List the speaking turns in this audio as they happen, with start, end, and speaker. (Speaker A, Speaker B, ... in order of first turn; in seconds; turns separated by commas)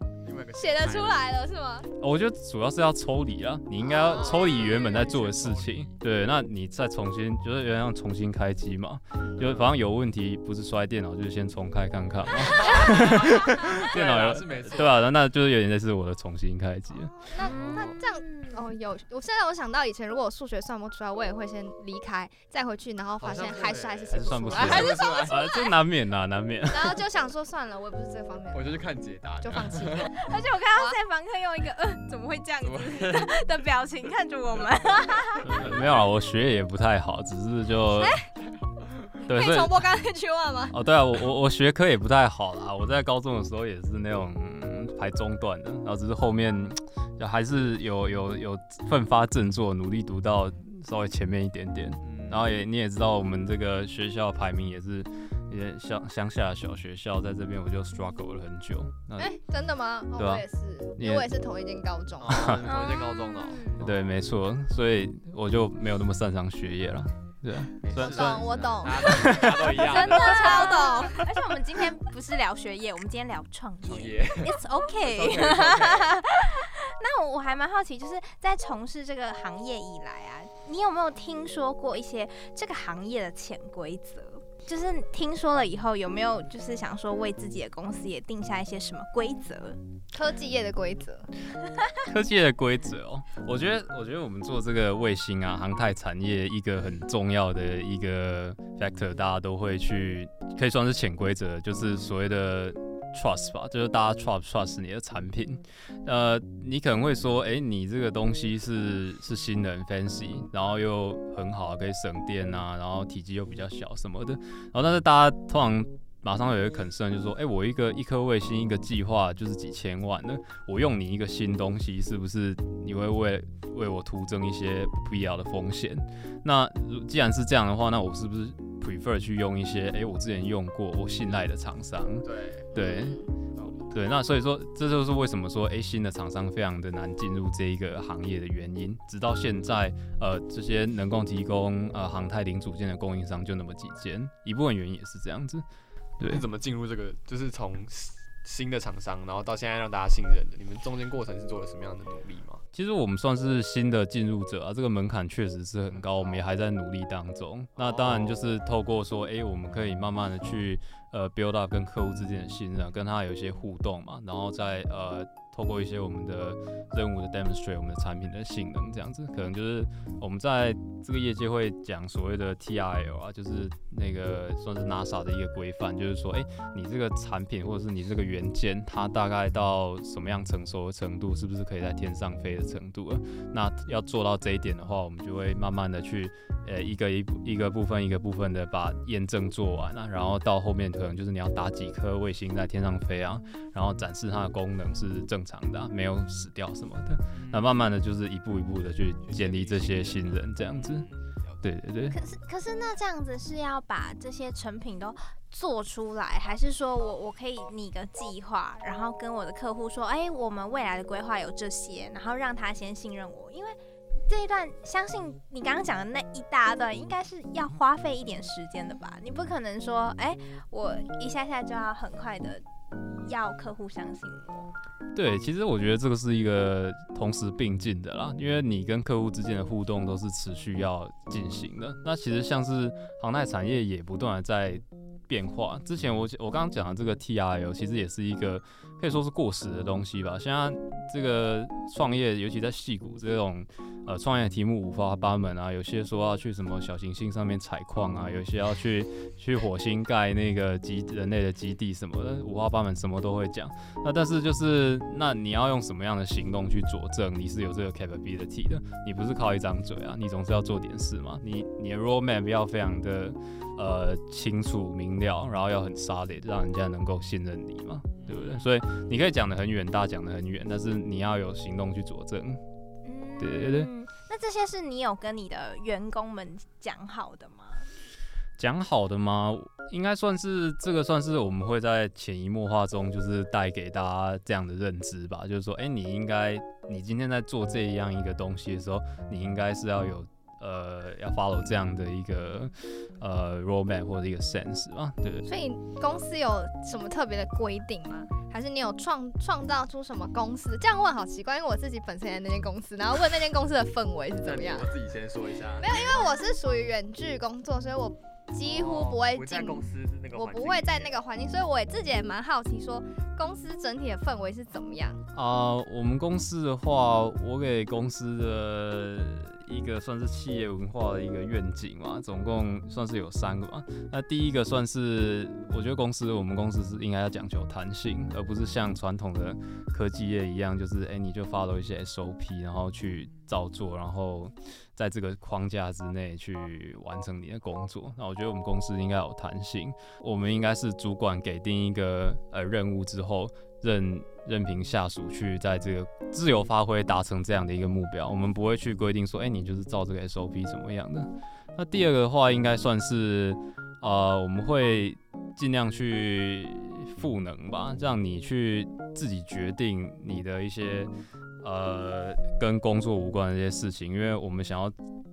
Speaker A: 0.2-1.3, Speaker B: 0.6-1.9, Speaker C: 2.0-17.3, Speaker B: 3.8-4.7, Speaker A: 4.0-6.0, Speaker A: 9.4-9.8, Speaker A: 12.3-15.0, Speaker B: 17.3-25.5, Speaker D: 17.4-18.6, Speaker A: 17.4-17.9, Speaker A: 23.2-25.4, Speaker C: 24.1-27.0, Speaker D: 24.9-25.3, Speaker B: 26.7-28.8, Speaker A: 28.5-30.1, Speaker B: 29.4-31.0, Speaker D: 30.0-35.5, Speaker A: 32.6-33.3, Speaker C: 35.4-38.2, Speaker A: 35.4-35.9, Speaker A: 38.4-39.1, Speaker B: 39.2-40.8, Speaker C: 39.3-39.8, Speaker C: 40.7-59.3, Speaker A: 52.0-52.5, Speaker B: 59.2-62.6, Speaker C: 60.1-60.4, Speaker C: 61.0-61.3, Speaker A: 62.2-63.9, Speaker C: 62.3-62.6, Speaker D: 62.6-63.8, Speaker C: 63.8-69.7, Speaker A: 67.8-71.2, Speaker B: 68.0-71.2, Speaker D: 69.9-89.8, Speaker A: 73.8-76.1, Speaker B: 90.1-91.3, Speaker C: 92.0-133.2, Speaker A: 132.2-132.7, Speaker B: 132.7-133.3, Speaker A: 133.5-133.9, Speaker C: 133.9-145.6, Speaker A: 146.2-152.6, Speaker C: 152.7-201.1, Speaker A: 155.9-156.4, Speaker A: 157.8-158.4, Speaker A: 197.3-197.7, Speaker A: 199.2-201.6, Speaker C: 201.6-202.1, Speaker D: 202.1-213.8, Speaker D: 214.3-222.6, Speaker D: 223.2-224.7, Speaker C: 225.1-272.6, Speaker A: 268.1-268.7, Speaker D: 273.0-277.9, Speaker C: 273.4-273.9, Speaker C: 278.6-295.5, Speaker B: 295.4-304.9, Speaker A: 304.4-305.9, Speaker B: 305.8-315.2, Speaker A: 308.6-311.2, Speaker C: 315.3-361.1, Speaker C: 361.6-364.9